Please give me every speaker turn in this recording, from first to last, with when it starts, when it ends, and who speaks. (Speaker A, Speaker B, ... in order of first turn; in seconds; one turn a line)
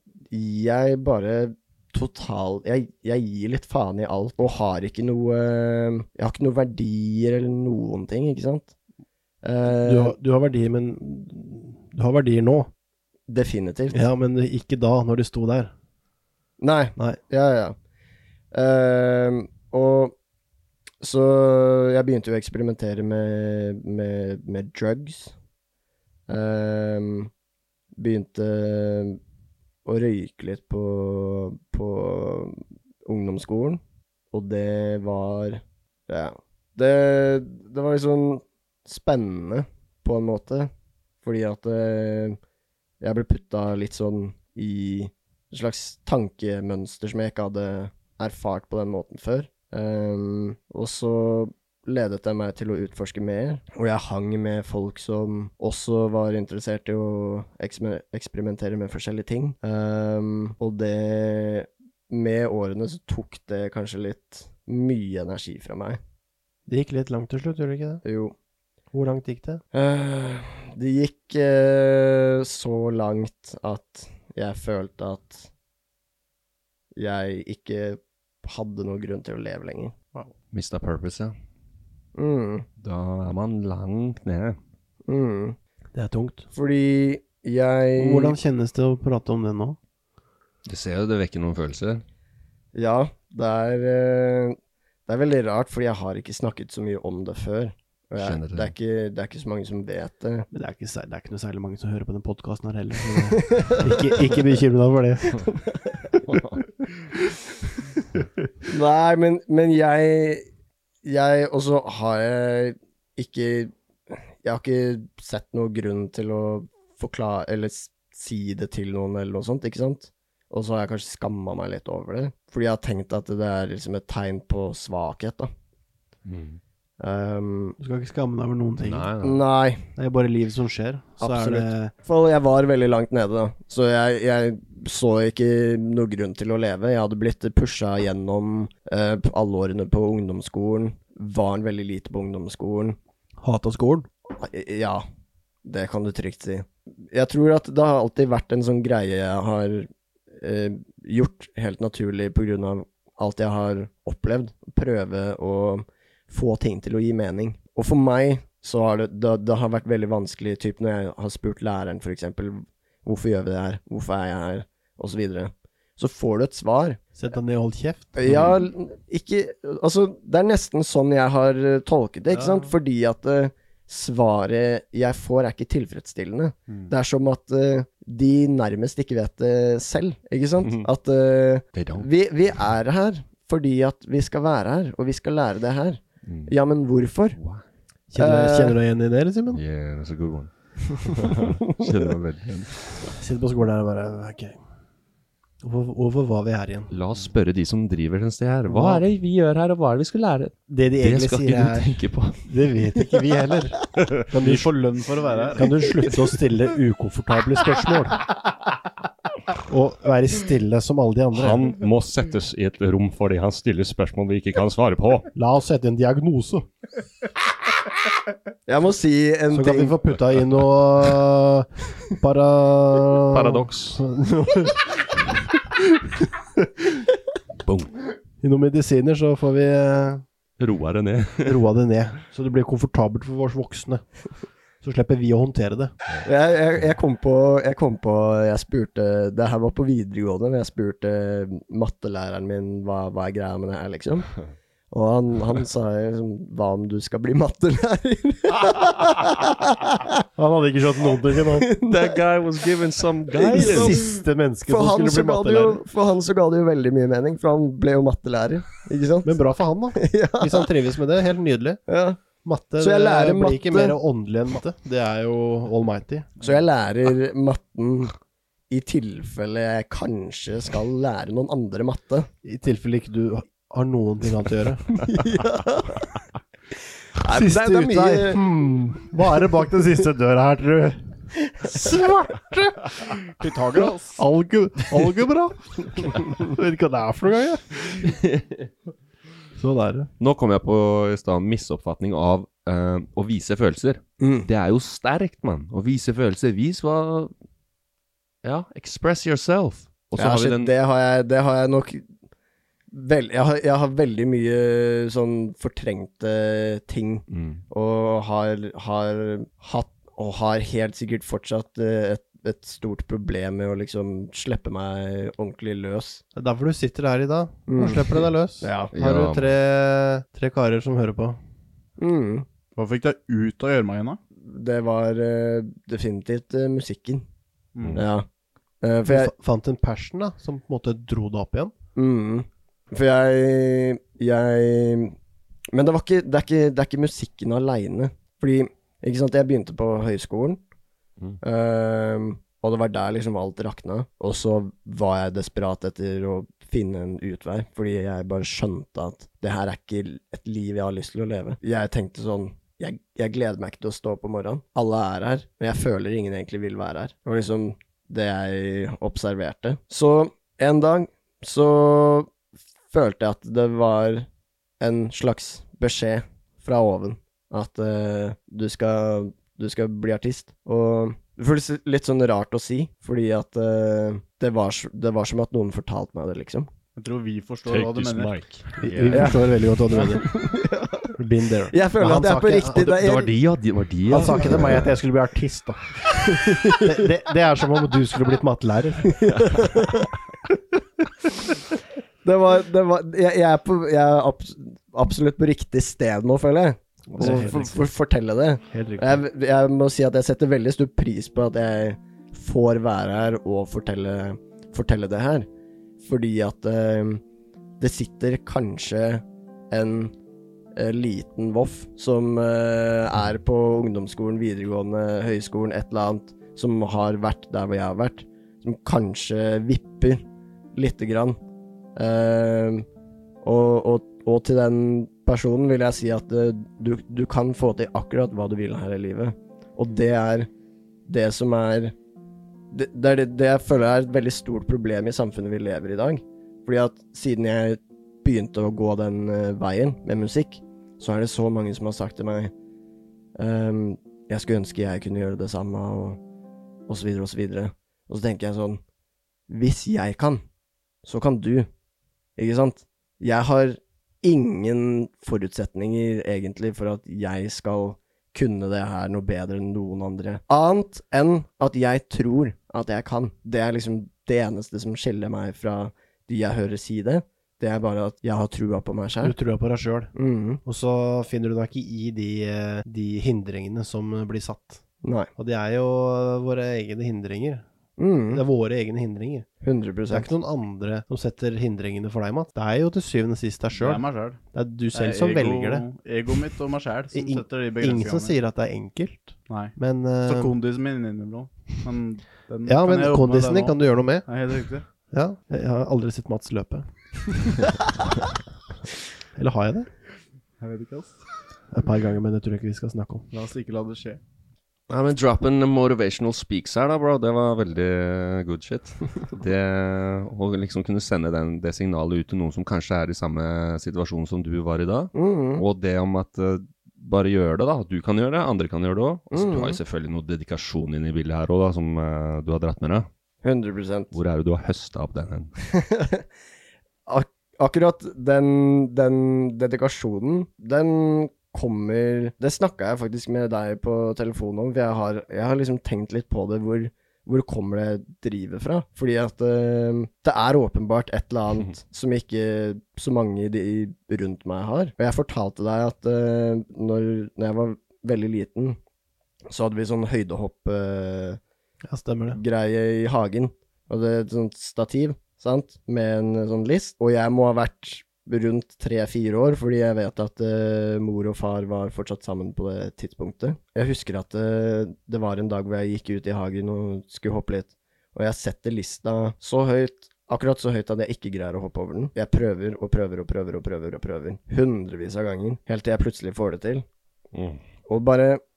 Speaker A: 0.3-8.7
Speaker A: 9.4-10.2
Speaker B: 9.8-12.7
Speaker A: 13.3-14.0
Speaker B: 13.9-15.7
Speaker A: 16.6-17.8
Speaker A: 18.5-20.1
Speaker A: 21.0-25.3
Speaker A: 26.3-27.3
Speaker A: 28.0-29.2
Speaker A: 29.9-33.8
Speaker A: 34.3-40.7
Speaker A: 41.2-42.4
Speaker A: 43.0-66.0
Speaker B: 66.7-68.0
Speaker A: 68.0-68.3
Speaker B: 68.9-69.6
Speaker A: 69.7-75.5
Speaker A: 77.0-80.0
Speaker C: 80.5-81.3
Speaker A: 82.2-82.7
Speaker C: 82.8-84.6
Speaker A: 85.1-85.6
Speaker B: 85.9-86.5
Speaker A: 86.5-88.4
Speaker B: 88.0-89.8
Speaker C: 90.7-92.0
Speaker A: 92.8-100.5
Speaker C: 98.2-98.7
Speaker B: 100.5-105.5
Speaker A: 103.5-104.3
Speaker A: 105.4-106.2
Speaker C: 106.3-106.6
Speaker A: 108.7-110.5
Speaker A: 111.0-125.5
Speaker C: 126.2-126.6
Speaker A: 127.0-127.8
Speaker B: 127.8-129.1
Speaker C: 128.8-129.4
Speaker A: 129.2-129.9
Speaker B: 130.0-131.9
Speaker A: 131.2-143.0
Speaker B: 143.4-144.1
Speaker A: 144.3-145.0
Speaker A: 145.6-167.0
Speaker B: 167.2-168.6
Speaker A: 168.2-187.4
Speaker B: 172.3-172.7
Speaker C: 181.8-182.1
Speaker C: 186.3-186.5
Speaker C: 187.4-187.6
Speaker B: 188.1-189.6
Speaker A: 188.2-188.8
Speaker C: 189.5-192.7
Speaker B: 193.1-194.6
Speaker B: 195.6-196.9
Speaker C: 196.9-202.4
Speaker B: 198.7-199.1
Speaker B: 200.7-204.8
Speaker D: 204.3-205.9
Speaker B: 205.6-208.3
Speaker B: 209.7-211.7
Speaker E: 211.4-215.3
Speaker B: 215.3-216.7
Speaker A: 218.7-220.0
Speaker B: 219.5-225.2
Speaker C: 223.3-224.0
Speaker C: 227.6-228.0
Speaker B: 228.4-230.2
Speaker C: 230.6-231.6
Speaker B: 231.4-234.1
Speaker B: 234.8-235.9
Speaker A: 236.2-244.3
Speaker A: 244.9-250.1
Speaker B: 250.4-251.7
Speaker A: 251.6-252.6
Speaker C: 251.9-254.1
Speaker A: 253.3-254.1
Speaker B: 253.5-255.8
Speaker A: 254.7-259.4
Speaker B: 259.2-261.8
Speaker A: 260.0-260.7
Speaker A: 261.9-262.2
Speaker B: 262.4-266.3
Speaker A: 262.8-264.0
Speaker A: 266.4-268.1
Speaker A: 268.7-272.3
Speaker B: 272.4-274.9
Speaker A: 275.0-276.1
Speaker A: 277.2-278.4
Speaker B: 277.3-283.1
Speaker D: 283.4-284.2
Speaker B: 283.8-288.1
Speaker C: 288.1-288.6
Speaker B: 289.6-290.1
Speaker C: 290.2-297.3
Speaker A: 294.2-294.5
Speaker C: 298.4-300.7
Speaker A: 300.2-302.1
Speaker A: 302.9-316.2
Speaker C: 307.3-307.6
Speaker B: 316.3-321.4
Speaker A: 317.7-318.9
Speaker C: 318.9-319.6
Speaker A: 322.0-322.5
Speaker D: 322.8-324.2
Speaker A: 324.4-327.2
Speaker D: 327.8-328.0
Speaker A: 327.9-328.3
Speaker A: 328.8-329.3
Speaker B: 329.1-331.7
Speaker A: 331.9-335.2
Speaker A: 335.7-340.6
Speaker A: 341.4-362.3
Speaker A: 362.9-364.3
Speaker A: 364.8-376.7
Speaker D: 377.0-378.4
Speaker E: 377.7-378.5
Speaker B: 378.8-380.3
Speaker C: 378.8-379.3
Speaker A: 380.1-381.2
Speaker B: 381.2-382.9
Speaker A: 381.7-383.3
Speaker C: 382.8-384.9
Speaker B: 384.1-386.1
Speaker A: 384.1-384.7
Speaker A: 386.3-386.9
Speaker B: 386.8-389.3
Speaker A: 389.2-390.1
Speaker A: 392.2-405.5
Speaker B: 397.1-397.9
Speaker B: 398.7-399.2
Speaker A: 406.0-407.2
Speaker A: 407.8-410.1
Speaker A: 410.8-420.2
Speaker A: 420.8-421.4
Speaker A: 422.0-422.9
Speaker A: 423.4-430.5
Speaker A: 431.1-431.9
Speaker A: 432.7-442.5
Speaker A: 443.4-446.2
Speaker A: 446.9-448.8
Speaker A: 449.5-450.4
Speaker A: 451.0-451.7
Speaker A: 452.4-469.4
Speaker B: 469.2-470.1
Speaker A: 470.1-470.6
Speaker B: 470.6-474.8
Speaker A: 475.0-475.3
Speaker B: 475.4-477.6
Speaker A: 478.0-478.4
Speaker B: 478.3-479.5
Speaker A: 479.6-480.3
Speaker B: 480.1-485.9
Speaker D: 483.7-484.4
Speaker D: 484.9-488.4
Speaker B: 487.1-490.6
Speaker D: 489.5-494.9
Speaker B: 492.7-494.3
Speaker B: 495.1-497.6
Speaker B: 499.4-499.9
Speaker D: 500.6-501.2
Speaker B: 501.7-503.3
Speaker D: 503.3-504.2
Speaker C: 504.9-523.1
Speaker A: 515.1-515.6
Speaker A: 519.3-519.8
Speaker A: 523.4-524.1
Speaker C: 524.1-525.5
Speaker A: 525.8-526.2
Speaker A: 527.1-548.8
Speaker A: 549.5-551.4
Speaker B: 551.9-552.4
Speaker A: 552.3-576.9
Speaker A: 577.9-578.4